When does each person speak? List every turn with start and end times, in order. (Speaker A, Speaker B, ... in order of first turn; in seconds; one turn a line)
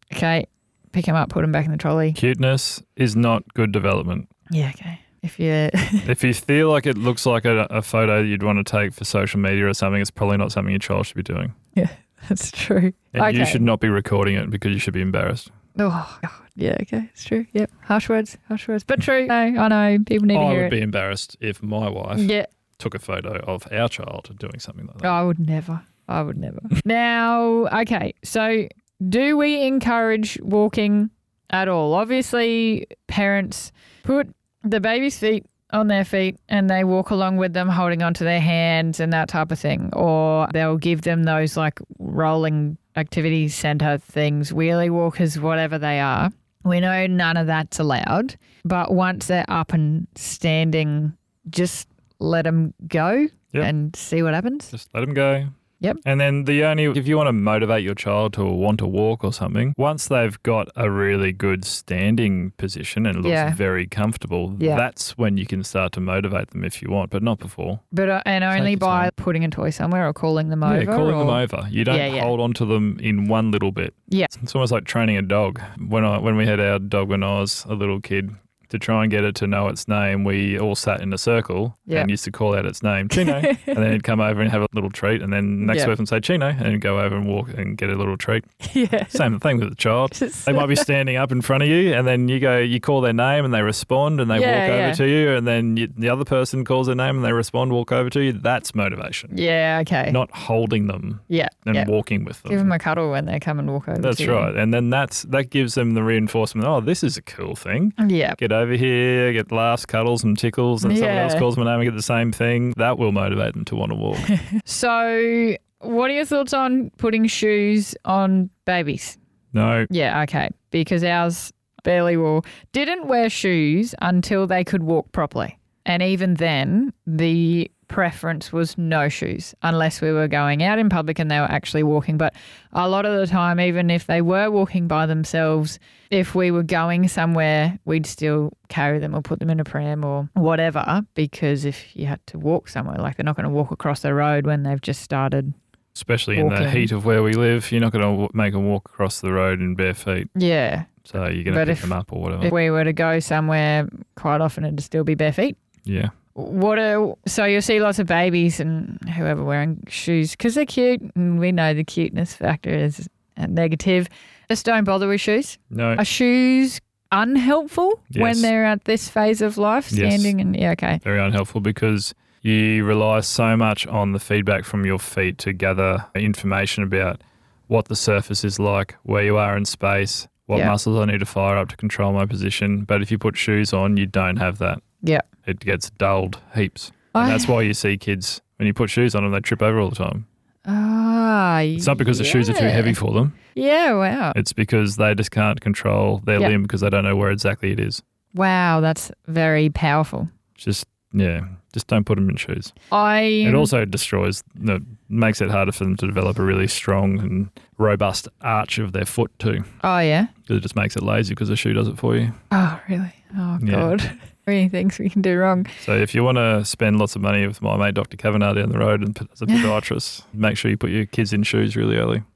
Speaker A: 0.1-2.2
Speaker B: 2.2-4.3
Speaker A: 4.5-6.1
Speaker B: 6.0-11.5
Speaker A: 11.8-13.7
Speaker B: 13.1-15.5
Speaker A: 15.8-20.7
Speaker B: 20.3-25.1
Speaker A: 22.2-22.5
Speaker A: 25.0-54.7
Speaker B: 54.7-55.5
Speaker B: 56.0-67.8
Speaker A: 63.2-63.6
Speaker A: 64.6-64.8
Speaker A: 67.9-72.3
Speaker B: 68.5-69.1
Speaker B: 70.7-88.5
Speaker A: 83.2-83.8
Speaker A: 85.6-85.9
Speaker A: 88.6-89.2
Speaker B: 89.1-99.3
Speaker A: 90.1-90.9
Speaker A: 94.3-95.0
Speaker A: 99.3-100.2
Speaker B: 100.1-102.7
Speaker A: 101.3-101.9
Speaker A: 102.5-104.5
Speaker B: 104.0-114.3
Speaker A: 108.0-108.4
Speaker A: 110.8-111.5
Speaker A: 114.3-119.2
Speaker B: 119.5-119.9
Speaker A: 119.9-145.5
Speaker B: 145.9-150.3
Speaker A: 146.4-146.9
Speaker A: 150.3-150.9
Speaker B: 151.1-152.5
Speaker A: 151.5-155.6
Speaker B: 155.8-156.1
Speaker A: 156.3-171.0
Speaker B: 165.7-166.0
Speaker B: 168.1-168.5
Speaker B: 169.9-170.3
Speaker B: 171.0-184.8
Speaker B: 185.4-190.3
Speaker A: 187.1-187.5
Speaker A: 190.7-193.0
Speaker B: 191.8-193.4
Speaker A: 193.5-194.4
Speaker B: 194.3-198.0
Speaker A: 198.3-200.3
Speaker B: 200.6-202.7
Speaker A: 202.9-203.7
Speaker B: 203.4-209.7
Speaker A: 209.8-210.3
Speaker B: 210.5-212.4
Speaker A: 212.5-215.7
Speaker B: 213.6-213.9
Speaker B: 215.8-222.2